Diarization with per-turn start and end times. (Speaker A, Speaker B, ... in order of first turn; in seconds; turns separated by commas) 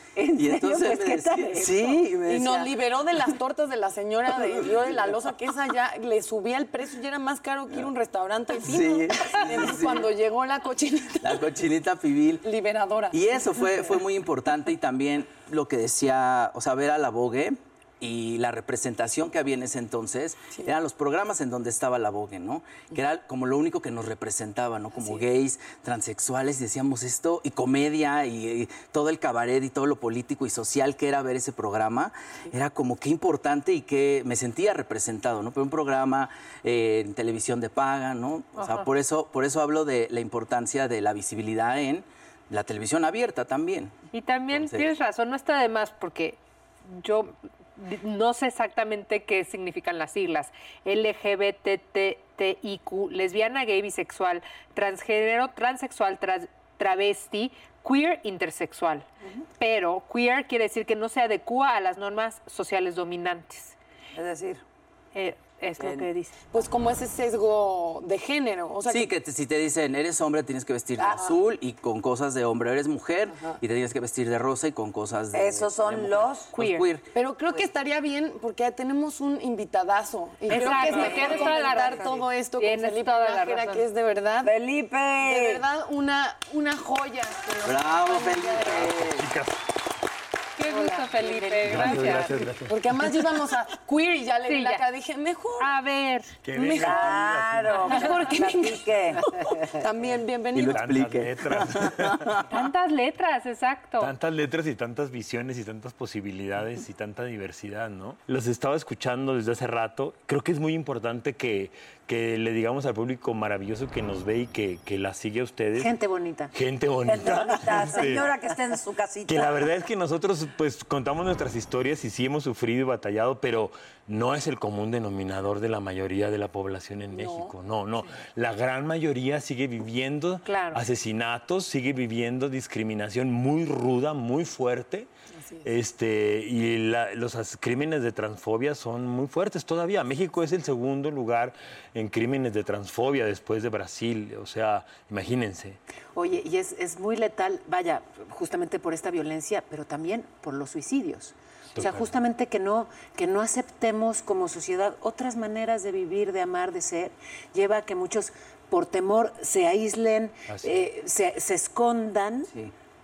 Speaker A: 0.2-2.1, Speaker B: 0.3-2.7, Speaker C: 2.3-11.6, Speaker B: 8.6-10.1, Speaker B: 11.2-12.4, Speaker C: 12.4-13.9, Speaker B: 13.1-44.0, Speaker C: 24.9-25.2, Speaker D: 38.6-38.9, Speaker D: 44.1-59.1, Speaker B: 44.5-44.9, Speaker D: 59.6-63.8, Speaker E: 64.2-64.6, Speaker D: 65.1-66.4, Speaker E: 65.8-66.1, Speaker C: 66.5-69.1, Speaker B: 68.9-77.1, Speaker E: 71.0-71.4, Speaker E: 75.3-76.5, Speaker D: 76.6-76.8, Speaker C: 77.1-84.5, Speaker D: 80.5-83.8, Speaker A: 80.5-82.1, Speaker E: 81.0-81.5, Speaker E: 84.4-85.6, Speaker C: 85.2-89.0, Speaker B: 87.6-89.3, Speaker F: 89.2-89.6, Speaker D: 90.6-92.3, Speaker E: 90.9-92.2, Speaker F: 91.6-93.3, Speaker C: 92.7-95.7, Speaker D: 94.5-94.8, Speaker D: 95.6-96.3, Speaker F: 96.4-97.9, Speaker C: 96.6-101.1, Speaker E: 96.7-99.2, Speaker D: 97.8-98.2, Speaker B: 100.5-102.5, Speaker F: 100.7-102.2, Speaker D: 102.5-104.1, Speaker F: 104.0-115.9, Speaker A: 115.8-116.5, Speaker F: 116.5-118.3, Speaker E: 117.1-119.7, Speaker A: 117.5-117.8, Speaker F: 119.3-135.1, Speaker C: 127.1-127.5, Speaker D: 130.4-130.8, Speaker C: 135.4-135.7, Speaker F: 135.6-145.8, Speaker A: 146.2-162.5, Speaker F: 151.7-152.2, Speaker F: 160.5-160.8